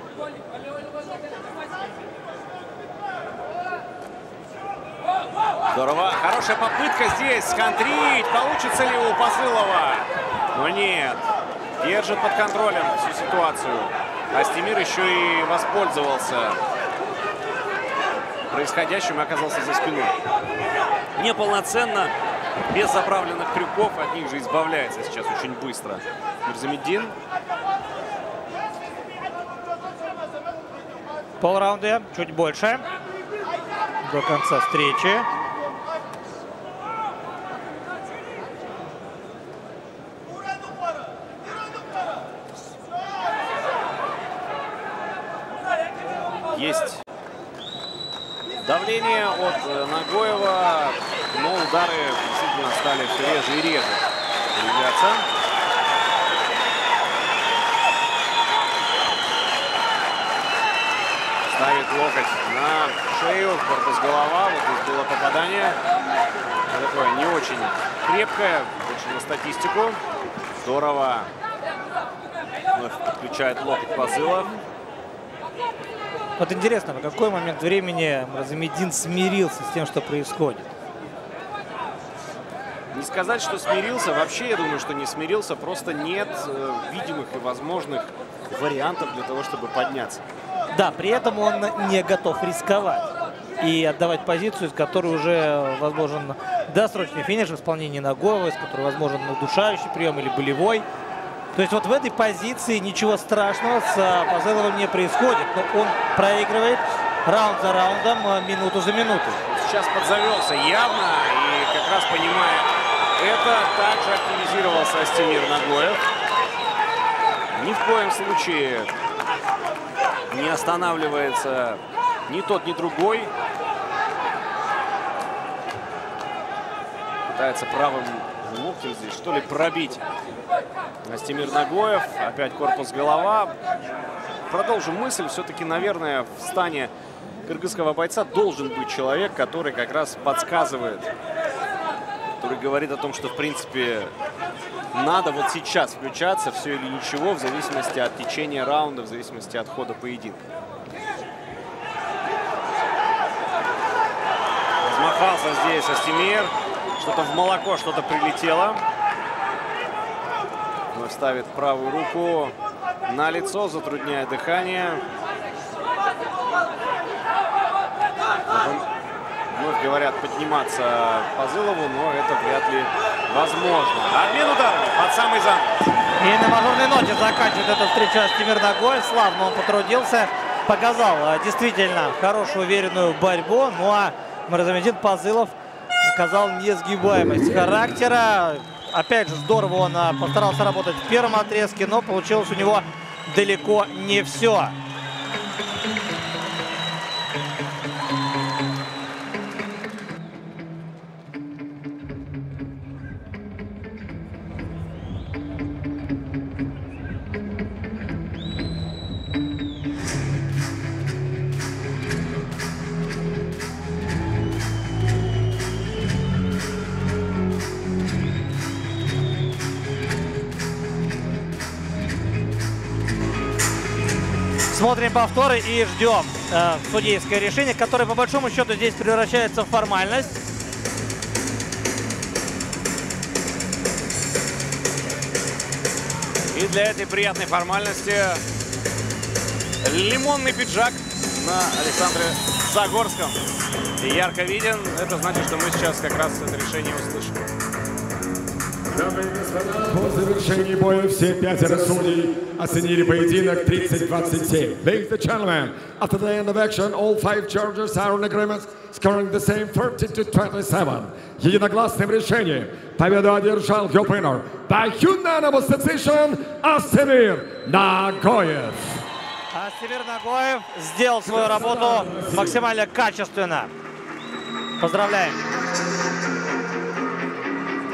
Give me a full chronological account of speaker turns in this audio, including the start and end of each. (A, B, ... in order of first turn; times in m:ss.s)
0:05.7-0:11.2 A
0:11.8-0:16.6 A
0:18.5-0:20.2 A
0:21.2-0:22.1 A
0:22.7-0:27.2 A
0:31.4-0:32.8 B
0:34.0-0:35.3 B
0:46.5-0:47.0 A
0:48.6-0:55.2 A
1:01.5-1:05.8 A
1:06.7-1:10.0 A
1:10.6-1:11.3 A
1:12.7-1:14.5 A
1:16.4-1:20.7 B
1:22.9-1:30.2 A
1:30.7-1:33.1 B
1:33.6-1:40.9 B
1:41.5-1:49.4 B
1:49.5-1:56.0 A
1:57.5-1:58.9 A
2:00.3-2:03.3 A
2:07.3-2:10.0 A
2:11.0-2:13.5 A
2:14.5-2:16.9 A
2:17.4-2:21.1 A
2:22.4-2:24.1 A
2:24.9-2:30.4 A
2:34.8-2:38.8 A
2:40.9-2:42.5 A
2:43.1-2:45.0 A
2:48.5-2:48.8 A
2:49.5-2:55.9 A
2:56.2-3:14.8 B
3:44.7-3:50.4 B
3:56.5-3:58.4 A
3:59.8-4:03.4 A
4:04.0-4:07.4 A
4:08.9-4:29.0 C
4:29.5-4:33.7 B
4:34.8-4:35.5 B